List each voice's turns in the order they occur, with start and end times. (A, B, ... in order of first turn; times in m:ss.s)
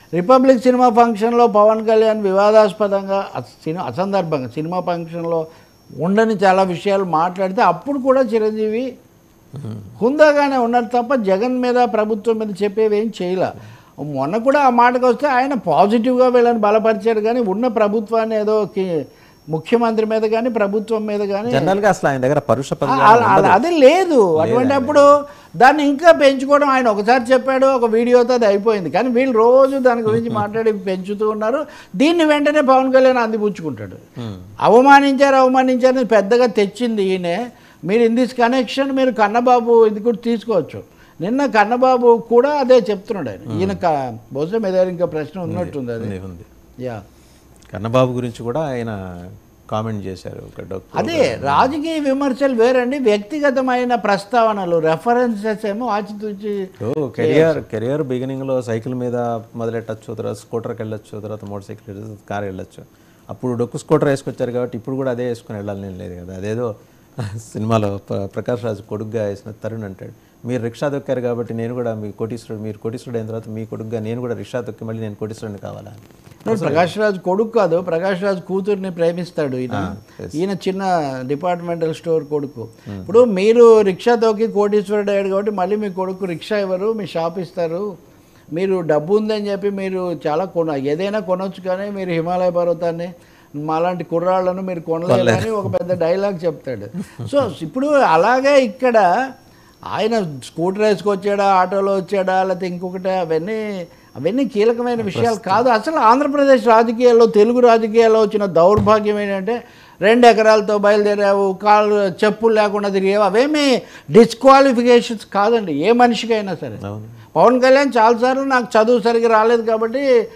0:00.2-0:05.4 A
0:06.0-0:08.9 A
0:09.6-0:09.9 B
0:10.0-0:13.5 A
0:14.1-0:18.9 A
0:19.5-0:21.7 A
0:21.5-0:23.6 B
0:22.9-0:25.1 A
0:24.4-0:25.0 B
0:25.6-0:34.0 A
0:30.1-0:30.4 B
0:34.6-0:46.1 A
0:43.5-0:43.8 B
0:45.5-0:46.5 B
0:47.7-0:49.0 B
0:49.7-0:51.8 B
0:51.0-0:56.5 A
0:56.8-1:06.7 B
0:57.2-0:57.6 A
1:07.2-1:16.9 B
1:16.4-1:27.8 A
1:19.7-1:20.4 B
1:28.6-1:33.1 A
1:33.6-1:39.0 A
1:35.1-1:35.7 B
1:39.9-1:43.6 A
1:44.2-1:56.8 A
1:45.0-1:45.6 B
1:56.8-1:57.2 B
1:57.4-2:00.0 A